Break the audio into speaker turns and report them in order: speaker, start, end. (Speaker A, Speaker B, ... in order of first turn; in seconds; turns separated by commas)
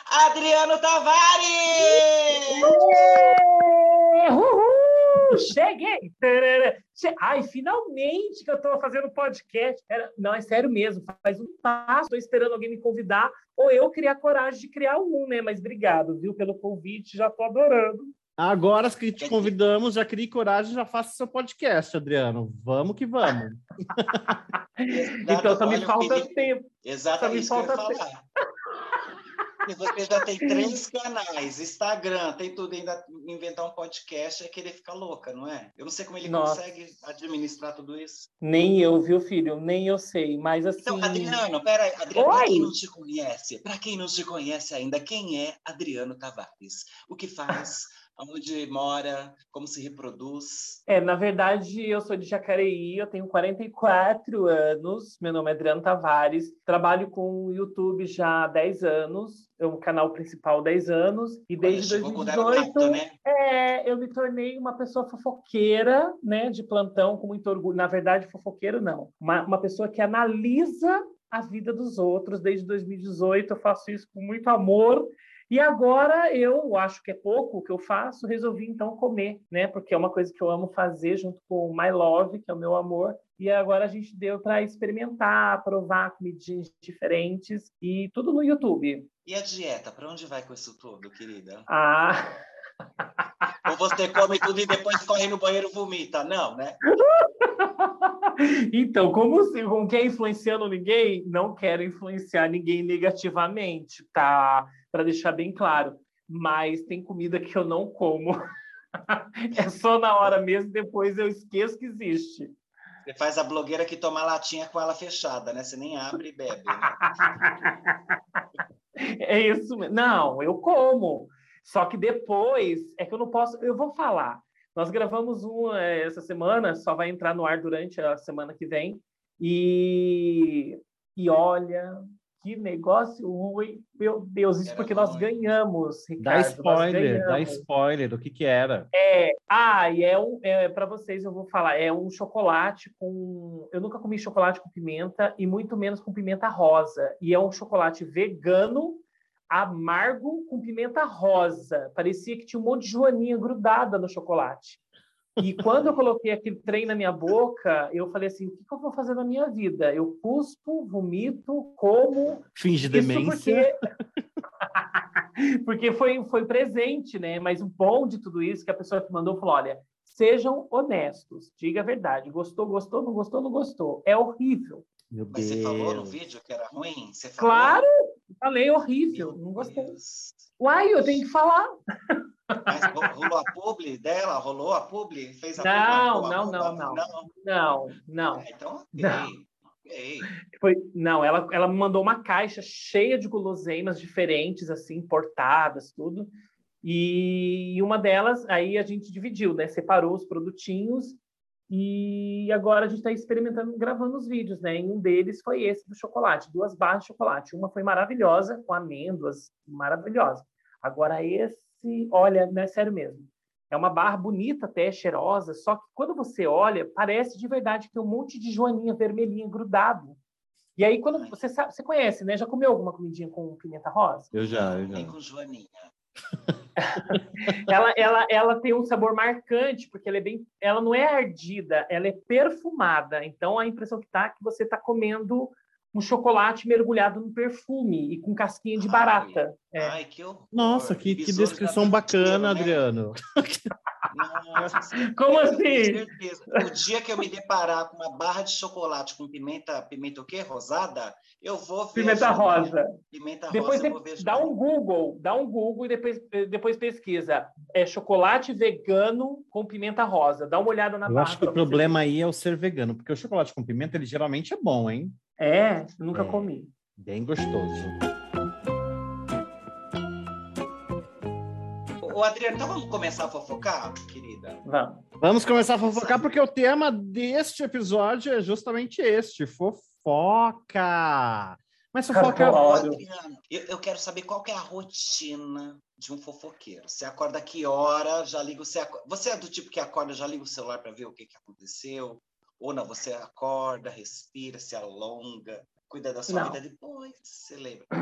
Speaker A: 0.1-2.8, Speaker B: 2.5-18.1, Speaker C: 2.7-3.3, Speaker C: 18.4-24.4, Speaker A: 19.2-19.8, Speaker B: 24.3-26.7, Speaker A: 24.9-28.2, Speaker B: 27.2-28.0, Speaker A: 29.6-38.3, Speaker B: 30.4-30.8, Speaker B: 36.2-36.6, Speaker B: 38.4-41.4, Speaker A: 40.8-50.8, Speaker B: 42.2-42.7, Speaker B: 50.9-89.1, Speaker A: 61.6-63.1, Speaker A: 89.3-91.7, Speaker B: 91.7-92.3, Speaker B: 93.0-94.2, Speaker A: 93.6-96.8, Speaker B: 96.9-108.4, Speaker B: 109.1-112.5, Speaker A: 113.0-117.4, Speaker B: 117.0-118.4, Speaker B: 119.0-137.7, Speaker A: 134.7-135.6, Speaker C: 136.2-138.9, Speaker B: 138.9-154.8, Speaker B: 155.4-163.8, Speaker C: 162.6-163.7, Speaker B: 164.6-174.9, Speaker C: 175.1-176.2, Speaker A: 175.3-177.8, Speaker B: 177.4-180.0, Speaker A: 179.1-180.5, Speaker B: 180.6-183.1, Speaker A: 182.7-187.3, Speaker B: 185.6-188.4, Speaker A: 188.3-190.3, Speaker B: 189.0-189.3, Speaker B: 190.4-196.3, Speaker B: 196.8-201.2, Speaker B: 201.7-220.2, Speaker B: 220.8-224.3, Speaker A: 221.1-221.4, Speaker C: 224.3-225.1, Speaker A: 224.3-225.9, Speaker B: 226.8-239.9, Speaker A: 238.8-242.8, Speaker C: 240.5-243.7, Speaker A: 244.1-254.5, Speaker B: 244.6-246.0, Speaker B: 252.0-252.9, Speaker B: 253.5-262.0, Speaker C: 261.1-265.2, Speaker B: 265.4-266.7, Speaker C: 266.1-267.9, Speaker A: 272.0-274.6, Speaker B: 274.6-275.0, Speaker C: 275.2-282.6, Speaker A: 275.6-276.3, Speaker B: 282.1-283.0, Speaker A: 282.4-297.9, Speaker B: 296.3-296.6